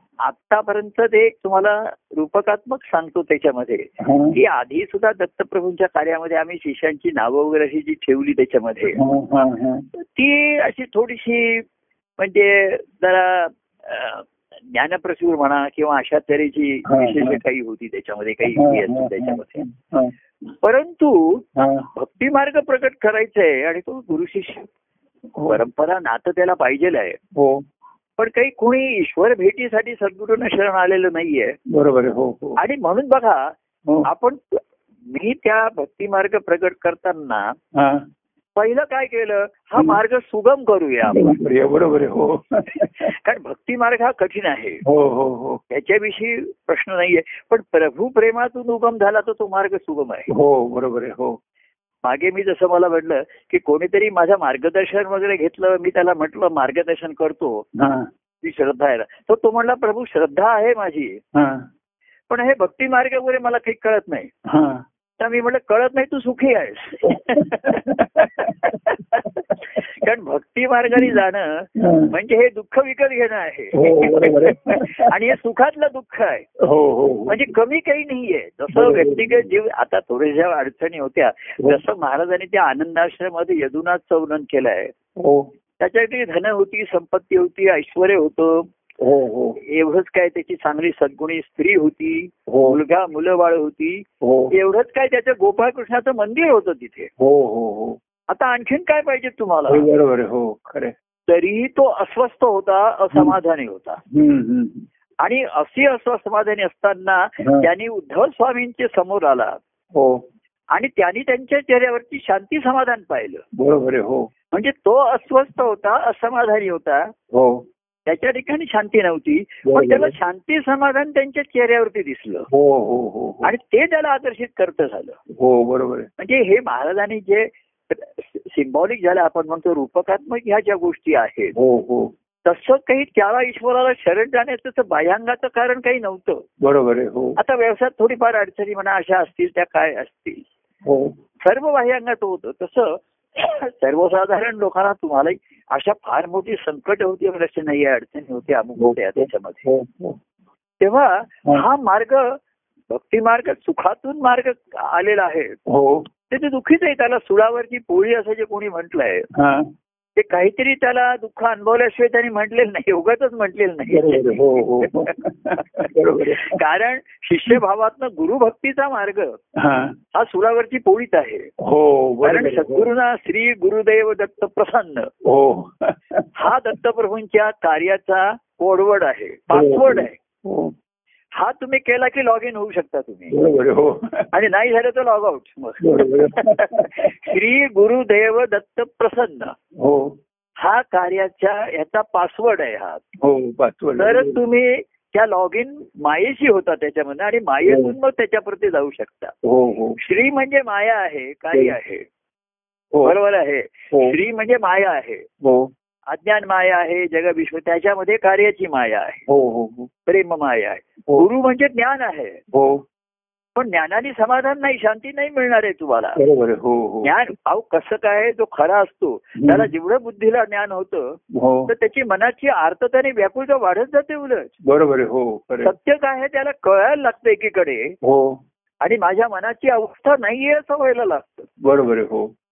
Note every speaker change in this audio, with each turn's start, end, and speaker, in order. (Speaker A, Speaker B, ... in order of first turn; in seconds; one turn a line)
Speaker A: 0.2-9.0
Speaker B: 4.0-4.4
Speaker B: 8.9-9.8
Speaker A: 9.9-11.7
Speaker A: 12.2-19.6
Speaker B: 16.8-17.4
Speaker B: 18.4-20.1
Speaker A: 20.5-21.4
Speaker B: 21.6-21.9
Speaker A: 21.9-24.7
Speaker B: 25.3-25.6
Speaker A: 25.5-27.2
Speaker B: 27.3-27.6
Speaker A: 28.2-31.6
Speaker B: 31.7-32.6
Speaker A: 32.6-33.5
Speaker A: 34.0-37.5
Speaker B: 37.7-38.0
Speaker A: 38.5-41.4
Speaker B: 41.1-43.1
Speaker A: 43.0-44.8
Speaker B: 44.8-45.6
Speaker A: 45.7-50.3
Speaker B: 50.3-51.4
Speaker A: 52.0-57.7
Speaker B: 57.8-58.1
Speaker A: 58.4-61.2
Speaker B: 61.3-61.7
Speaker A: 62.3-64.3
Speaker B: 64.4-64.8
Speaker A: 65.2-76.5
Speaker B: 67.1-69.8
Speaker B: 71.8-72.1
Speaker B: 73.7-75.1
Speaker B: 76.6-77.5
Speaker A: 77.3-84.9
Speaker B: 78.7-79.5
Speaker B: 85.2-85.5
Speaker A: 85.8-88.7
Speaker B: 89.0-89.6
Speaker A: 89.6-97.1
Speaker B: 92.5-92.8
Speaker B: 94.2-94.5
Speaker B: 97.2-98.0
Speaker A: 98.3-99.8
Speaker B: 99.7-100.9
Speaker A: 101.3-104.0
Speaker B: 104.1-104.8
Speaker A: 105.2-109.6
Speaker B: 107.4-107.7
Speaker B: 109.9-110.2
Speaker A: 110.7-113.4
Speaker B: 113.5-114.3
Speaker A: 114.5-117.1
Speaker B: 117.3-117.6
Speaker A: 118.0-122.5
Speaker B: 119.6-120.1
Speaker B: 122.5-123.5
Speaker A: 123.4-125.2
Speaker B: 125.3-126.1
Speaker A: 126.2-131.5
Speaker B: 131.5-132.1
Speaker A: 132.4-136.4
Speaker B: 136.6-137.4
Speaker A: 137.4-140.4
Speaker B: 140.8-141.1
Speaker A: 141.4-149.6
Speaker B: 148.8-150.2
Speaker A: 150.8-152.4
Speaker A: 152.9-155.6
Speaker B: 155.7-156.1
Speaker A: 156.3-159.3
Speaker B: 159.3-159.7
Speaker A: 160.2-169.4
Speaker B: 163.9-166.6
Speaker B: 169.5-170.0
Speaker A: 170.1-171.5
Speaker B: 171.6-172.9
Speaker A: 172.2-175.1
Speaker B: 175.2-176.3
Speaker A: 176.3-180.1
Speaker B: 179.5-180.7
Speaker A: 181.3-183.3
Speaker B: 183.3-184.3
Speaker A: 184.3-189.5
Speaker B: 185.8-187.3
Speaker B: 189.8-190.2
Speaker A: 190.6-193.0
Speaker B: 193.2-194.4
Speaker A: 194.0-199.3
Speaker B: 197.7-197.9
Speaker B: 199.4-200.0
Speaker A: 200.0-202.1
Speaker A: 203.0-205.2
Speaker B: 203.9-204.2
Speaker B: 205.4-205.7
Speaker A: 206.1-209.2
Speaker B: 209.3-209.9
Speaker A: 210.1-212.4
Speaker B: 212.5-212.8
Speaker A: 213.5-216.2
Speaker B: 216.2-217.1
Speaker A: 217.0-224.5
Speaker B: 219.4-219.7
Speaker B: 221.3-221.7
Speaker B: 224.6-225.7
Speaker A: 225.6-227.9
Speaker B: 228.0-228.4
Speaker A: 228.8-231.5
Speaker B: 231.6-232.3